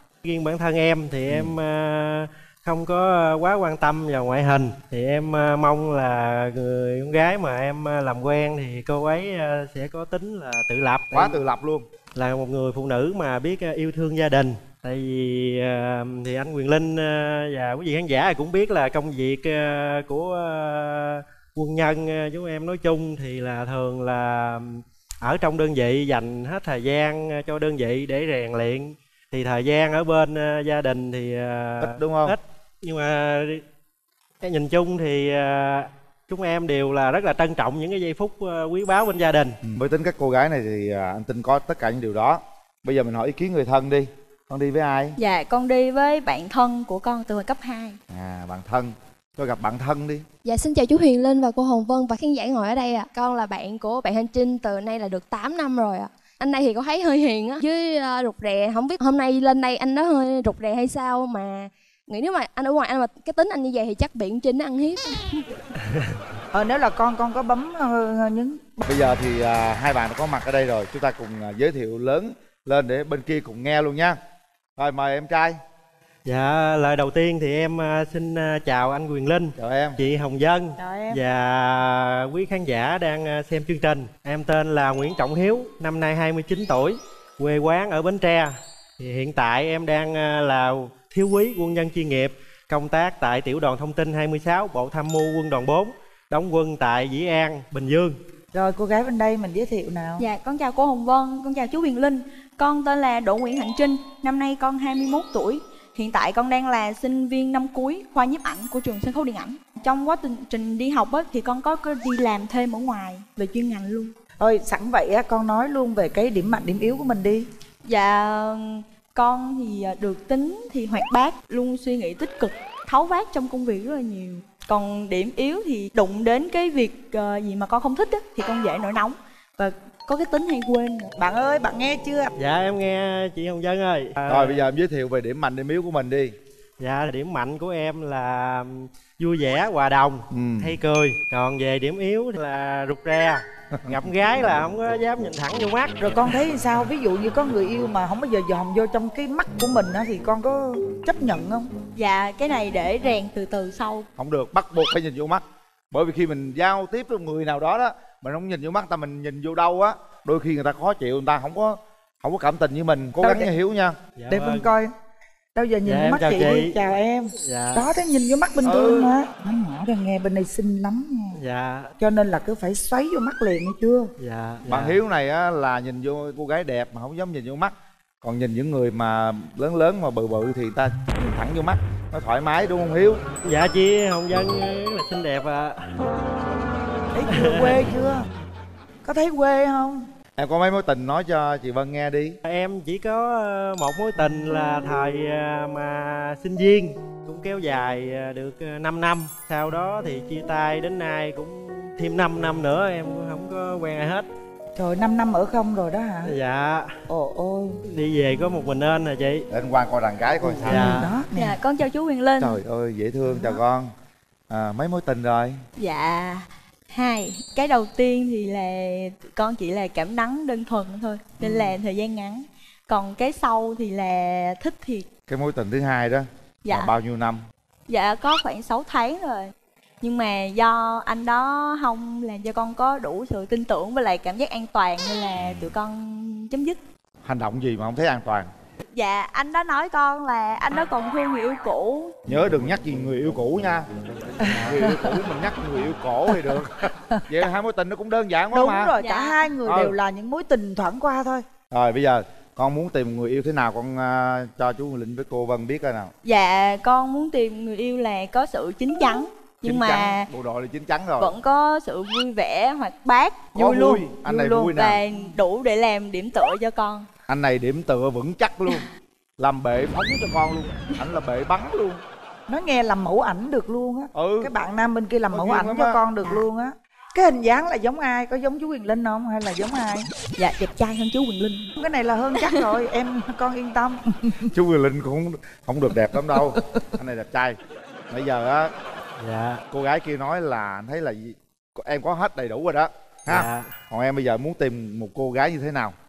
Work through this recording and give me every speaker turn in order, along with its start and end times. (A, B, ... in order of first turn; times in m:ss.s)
0:00.2-0:11.4 A
0:11.1-0:11.9 B
0:12.1-0:33.6 A
0:31.8-0:32.4 B
0:34.4-0:39.6 A
0:39.7-0:45.2 B
0:45.2-0:48.0 C
0:48.1-0:50.2 B
0:50.4-1:05.5 D
1:06.5-1:08.8 E
1:08.8-1:14.2 B
1:14.8-1:15.6 B
1:16.2-1:38.2 A
1:19.6-1:20.0 B
1:20.8-1:21.2 E
1:38.5-1:40.2 E
1:40.2-1:54.1 C
1:54.4-1:57.5 E
1:57.8-2:11.1 C
2:11.2-2:12.3 E
2:12.4-2:14.6 A
2:14.3-2:16.3 B
2:16.8-2:26.1 A
2:20.3-2:20.7 B
2:26.0-2:31.7 E
2:31.9-2:34.1 C
2:34.2-2:44.0 B
2:43.2-2:43.5 E
2:44.2-2:44.7 A
2:44.3-2:44.9 E
2:45.5-2:51.4 E
2:45.8-2:46.8 A
2:47.4-2:47.9 A
2:48.6-2:49.1 B
2:51.3-2:51.9 A
2:52.0-2:54.1 E
2:54.2-2:55.0 A
2:54.7-3:03.2 B
3:03.4-3:05.9 A
3:07.1-3:08.2 E
3:07.3-3:07.8 A
3:09.0-3:10.1 E
3:10.4-3:12.4 B
3:12.4-3:24.3 A
3:24.8-3:26.3 E
3:26.2-3:26.9 A
3:27.1-3:27.8 E
3:27.9-3:29.4 A
3:29.5-3:30.9 B
3:30.5-3:31.6 E
3:30.6-3:31.1 A
3:31.3-3:32.6 C
3:32.4-3:33.9 B
3:33.3-3:33.6 E
3:34.5-3:35.6 B
3:35.8-3:45.1 C
3:41.4-3:41.7 E
3:45.3-3:47.4 B
3:46.6-3:46.9 C
3:47.9-3:49.5 C
3:50.0-3:56.8 C
3:57.2-3:58.5 B
3:58.9-4:02.2 C
4:02.3-4:03.9 B
4:04.4-4:05.2 E
4:04.6-4:09.0 B
4:08.5-4:11.6 E
4:09.0-4:09.5 C
4:09.6-4:10.0 B
4:11.7-4:16.1 B
4:16.2-4:20.3 C
4:19.6-4:21.3 B
4:21.2-4:27.1 C
4:23.5-4:25.0 B
4:24.2-4:24.8 E
4:27.3-4:28.9 B
4:29.4-4:32.0 B
4:32.5-4:40.1 E
4:34.1-4:34.5 B
4:35.3-4:36.0 B
4:40.4-4:41.7 C
4:41.8-4:44.5 E
4:44.5-4:47.6 B
4:48.1-4:48.7 B
4:49.2-4:49.6 A
4:49.7-4:55.9 B
4:53.3-4:53.7 A